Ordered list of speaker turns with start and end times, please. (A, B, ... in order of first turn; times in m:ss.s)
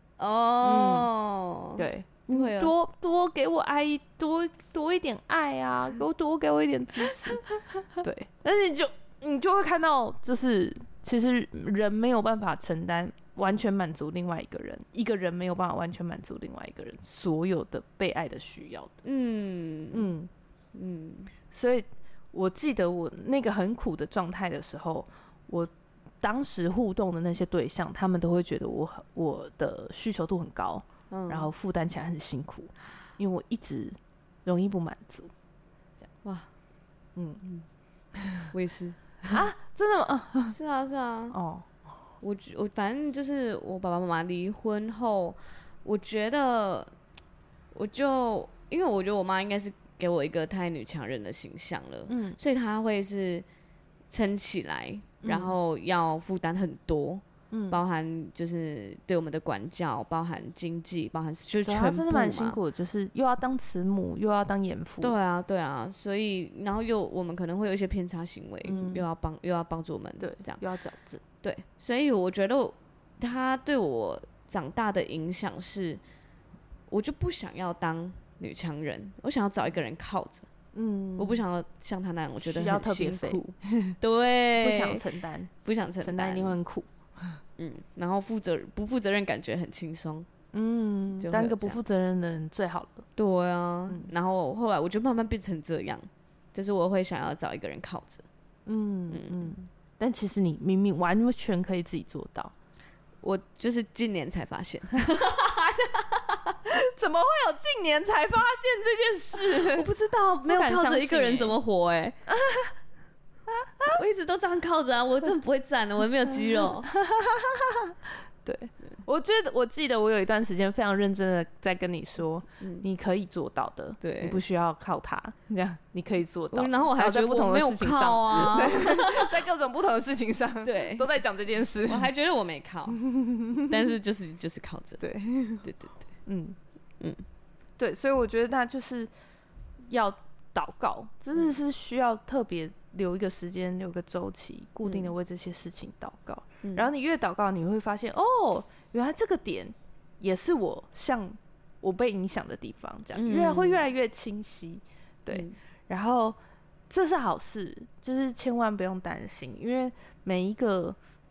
0:00.2-0:02.7 A
0:00.6-0:01.1 B
0:01.8-0:19.0 B
0:19.0-0:20.1 A
0:19.9-0:20.3 B
0:20.7-0:21.3 A
0:21.5-0:35.3 B
0:31.1-0:31.5 A
0:36.2-0:36.5 A
0:37.2-0:37.4 B
0:38.5-0:39.4 A
0:39.3-0:40.6 B
0:40.5-0:41.4 A
0:41.3-0:41.7 B
0:42.2-0:46.9 A
0:47.7-0:53.5 A
0:52.1-0:52.4 B
0:54.1-1:02.6 A
0:55.2-0:55.5 B
0:57.5-0:57.8 B
1:01.6-1:05.2 B
1:05.0-1:10.6 A
1:08.6-1:09.0 B
1:10.2-1:11.2 B
1:11.4-1:16.0 A
1:16.9-1:20.5 A
1:20.7-1:21.4 B
1:21.2-1:23.4 A
1:22.4-1:24.0 B
1:24.0-1:25.0 A
1:24.6-1:27.4 B
1:25.6-1:26.6 A
1:27.6-1:30.3 A
1:30.5-1:33.1 B
1:31.2-1:31.8 A
1:33.2-1:38.2 A
1:38.7-1:42.5 B
1:39.1-1:39.5 A
1:43.2-1:46.6 A
1:45.1-1:45.4 B
1:46.7-1:49.9 B
1:49.5-1:52.2 A
1:50.5-1:51.6 B
1:52.3-1:52.7 B
1:53.9-1:56.9 A
1:56.8-2:12.1 B
2:02.6-2:02.9 A
2:04.0-2:04.4 A
2:06.5-2:09.4 A
2:10.6-2:11.1 A
2:11.8-2:13.0 A
2:12.9-2:13.8 B
2:13.6-2:15.0 A
2:15.0-2:15.7 B
2:15.6-2:16.0 A
2:16.3-2:16.6 B
2:17.8-2:19.1 B
2:19.9-2:36.4 B
2:24.8-2:25.1 A
2:33.2-2:33.8 A
2:36.9-2:41.0 B